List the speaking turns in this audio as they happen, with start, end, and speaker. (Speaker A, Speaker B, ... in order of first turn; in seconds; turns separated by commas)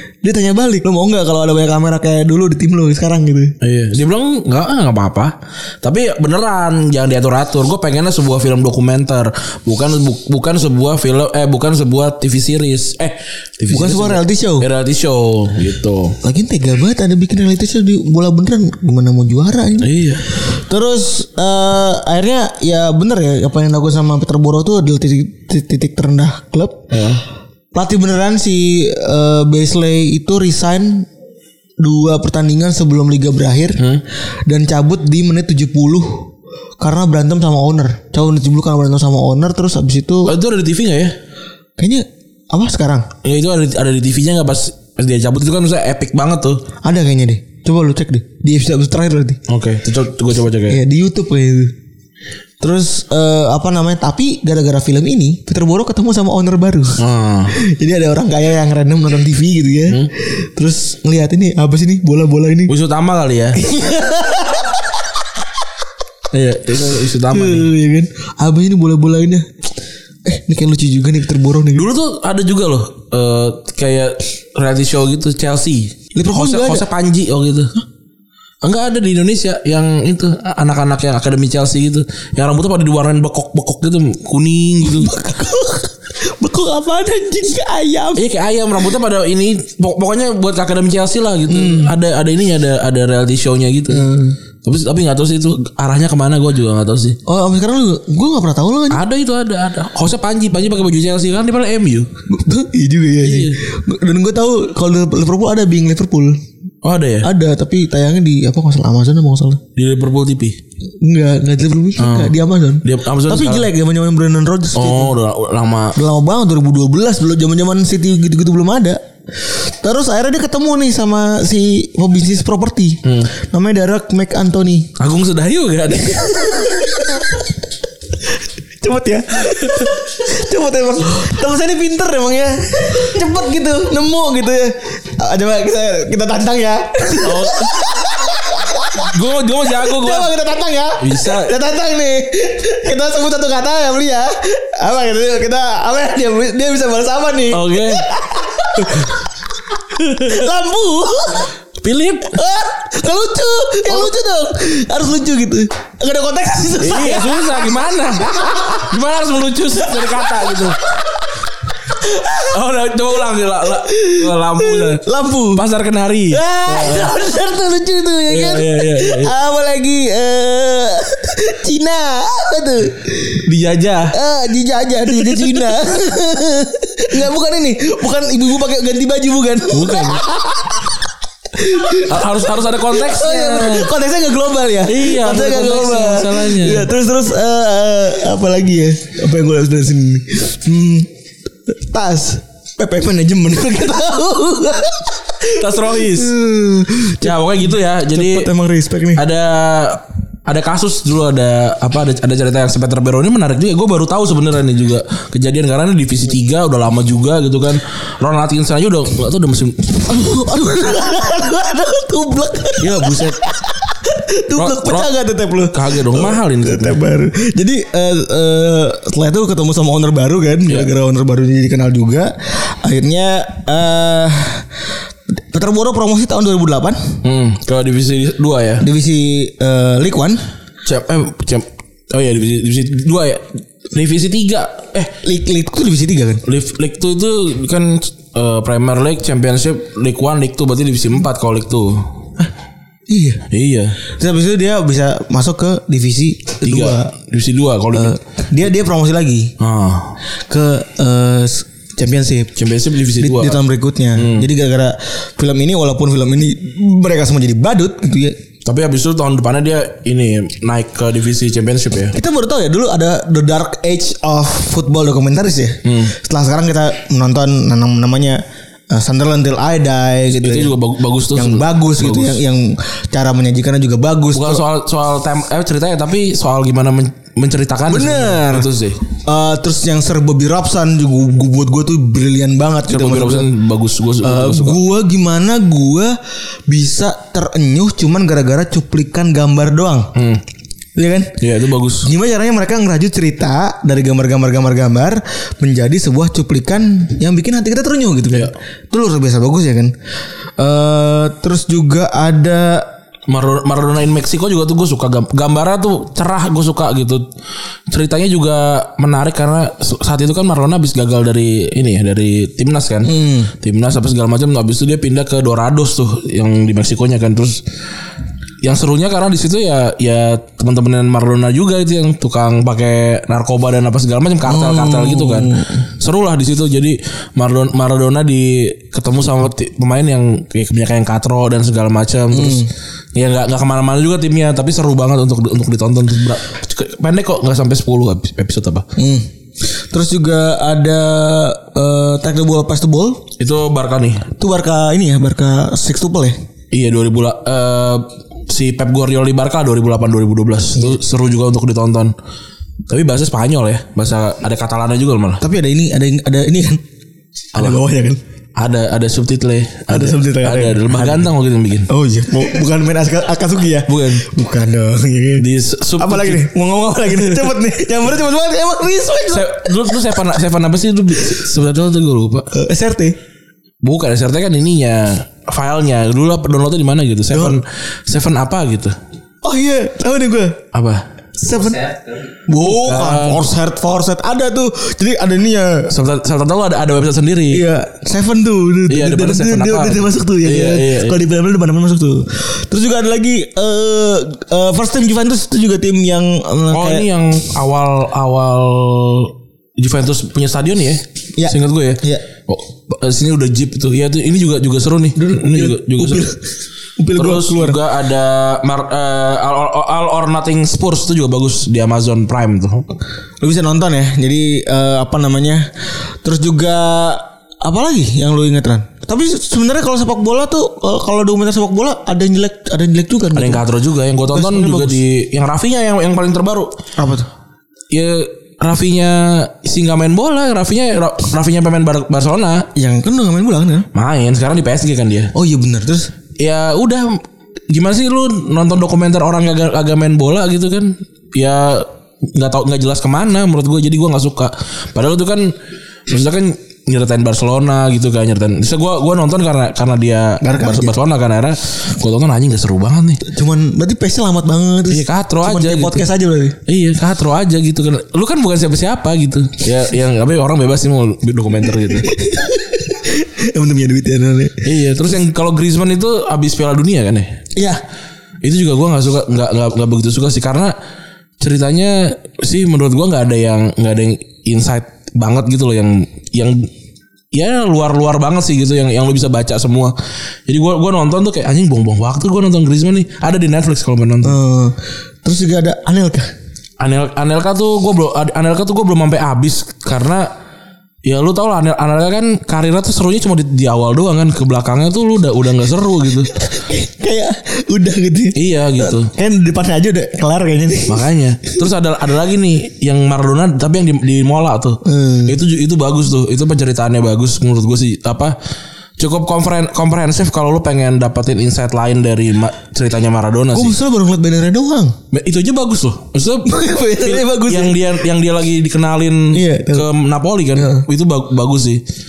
Speaker A: 0.2-3.5, Speaker B: 3.6-16.2, Speaker A: 13.7-14.7, Speaker A: 16.2-26.9, Speaker B: 19.8-20.2, Speaker B: 26.9-27.2, Speaker A: 27.7-31.1, Speaker A: 31.8-33.8, Speaker A: 34.5-40.4, Speaker B: 40.2-41.1, Speaker A: 41.8-43.1, Speaker B: 43.2-46.6, Speaker A: 46.8-49.4, Speaker B: 49.5-50.8, Speaker A: 50.7-51.7, Speaker A: 52.6-57.0, Speaker B: 57.0-57.5, Speaker A: 57.5-62.7, Speaker B: 62.7-63.6, Speaker A: 63.5-65.0, Speaker B: 66.3-67.7, Speaker A: 67.3-69.5, Speaker A: 70.2-71.9, Speaker B: 71.7-77.7, Speaker A: 76.1-76.9, Speaker B: 78.6-85.1, Speaker A: 84.8-88.2, Speaker B: 88.1-94.1, Speaker A: 91.5-91.9, Speaker A: 93.9-94.4, Speaker B: 94.6-97.2, Speaker A: 97.2-99.0, Speaker B: 98.9-102.1, Speaker A: 102.3-106.4, Speaker B: 103.2-103.6, Speaker B: 106.8-107.3, Speaker A: 107.2-109.6, Speaker B: 109.8-110.6, Speaker A: 111.0-115.2, Speaker B: 112.0-113.7, Speaker B: 114.7-116.0, Speaker A: 115.9-124.9, Speaker B: 123.0-123.3, Speaker B: 125.0-127.0, Speaker A: 126.0-127.5, Speaker A: 128.2-151.5, Speaker B: 129.4-129.9, Speaker B: 137.2-138.0, Speaker B: 139.0-140.3, Speaker B: 141.0-141.5, Speaker B: 147.5-148.1, Speaker B: 151.8-152.4, Speaker A: 152.2-158.9, Speaker B: 156.8-160.8, Speaker A: 159.7-161.3, Speaker A: 161.8-162.6, Speaker B: 162.4-167.2, Speaker A: 163.9-165.6, Speaker A: 166.3-173.4, Speaker B: 168.3-169.3, Speaker B: 173.4-174.2, Speaker A: 174.1-191.1, Speaker B: 175.1-175.5, Speaker B: 179.7-180.3, Speaker B: 181.9-183.9, Speaker B: 184.8-186.9, Speaker A: 191.7-199.2, Speaker B: 195.4-196.3, Speaker B: 197.2-198.5, Speaker B: 199.1-210.2, Speaker A: 210.0-224.7, Speaker B: 212.8-213.4, Speaker B: 214.6-215.1, Speaker B: 215.7-217.0, Speaker A: 225.3-227.2, Speaker B: 227.2-228.8, Speaker A: 228.8-230.4, Speaker B: 230.8-235.1, Speaker A: 235.2-236.4, Speaker B: 236.4-242.1, Speaker A: 243.1-243.4, Speaker B: 243.5-244.0, Speaker A: 244.0-247.1, Speaker B: 246.6-248.2, Speaker A: 247.9-249.5, Speaker B: 249.6-250.2, Speaker A: 250.5-252.6, Speaker B: 252.6-253.6, Speaker A: 253.2-258.4, Speaker B: 254.1-254.5, Speaker B: 258.6-262.1, Speaker A: 262.1-270.8, Speaker B: 265.8-266.1, Speaker B: 270.4-272.4, Speaker A: 271.3-274.6, Speaker B: 274.3-279.0, Speaker A: 277.9-283.5, Speaker B: 282.9-284.8, Speaker A: 284.2-290.1, Speaker B: 290.1-290.4, Speaker A: 290.9-291.4, Speaker B: 291.4-292.1, Speaker A: 292.0-299.9, Speaker A: 300.6-302.9, Speaker B: 303.3-307.2, Speaker B: 307.9-317.6, Speaker A: 313.1-313.5, Speaker B: 318.6-338.8, Speaker A: 324.4-325.8, Speaker A: 332.3-332.7, Speaker A: 339.0-343.2, Speaker B: 343.4-344.3, Speaker A: 344.4-346.4, Speaker B: 346.7-352.1, Speaker B: 352.9-355.4, Speaker A: 355.4-356.8, Speaker B: 357.5-357.8, Speaker A: 357.5-358.2, Speaker B: 358.6-361.9, Speaker A: 359.9-361.3, Speaker A: 361.9-365.5, Speaker B: 363.9-364.3, Speaker B: 365.4-366.5, Speaker A: 366.0-370.2, Speaker B: 367.1-367.5, Speaker B: 369.3-372.5, Speaker A: 372.5-373.1, Speaker B: 373.8-378.9, Speaker A: 377.3-377.6, Speaker A: 379.4-380.6, Speaker B: 380.7-381.0, Speaker A: 381.4-385.9, Speaker B: 382.6-383.4, Speaker B: 385.9-387.6, Speaker A: 387.5-397.1, Speaker B: 388.9-391.2, Speaker B: 396.7-406.4, Speaker A: 401.4-402.2, Speaker A: 405.1-406.4, Speaker A: 407.0-407.8, Speaker B: 407.1-412.9, Speaker A: 413.4-423.6, Speaker B: 423.3-426.7, Speaker A: 424.3-425.0, Speaker A: 427.0-427.3, Speaker B: 427.9-432.7, Speaker A: 432.7-433.9, Speaker B: 433.9-435.3, Speaker A: 435.3-436.1, Speaker B: 436.4-445.5, Speaker B: 446.1-453.2, Speaker A: 450.4-451.0, Speaker A: 453.2-456.6, Speaker B: 454.9-456.1, Speaker B: 456.6-462.1, Speaker A: 461.9-464.6, Speaker B: 464.6-467.4, Speaker A: 467.6-467.8, Speaker B: 468.4-470.7, Speaker B: 471.4-476.7, Speaker B: 477.3-479.9, Speaker B: 480.5-484.4, Speaker A: 484.2-486.3, Speaker B: 486.8-490.3, Speaker B: 491.1-496.3, Speaker A: 496.3-501.1, Speaker B: 498.3-499.1, Speaker B: 500.9-508.3, Speaker A: 504.8-505.4, Speaker B: 509.0-513.8, Speaker A: 513.5-515.0, Speaker B: 515.1-521.8, Speaker A: 516.5-517.9, Speaker A: 519.3-519.9, Speaker A: 520.5-520.9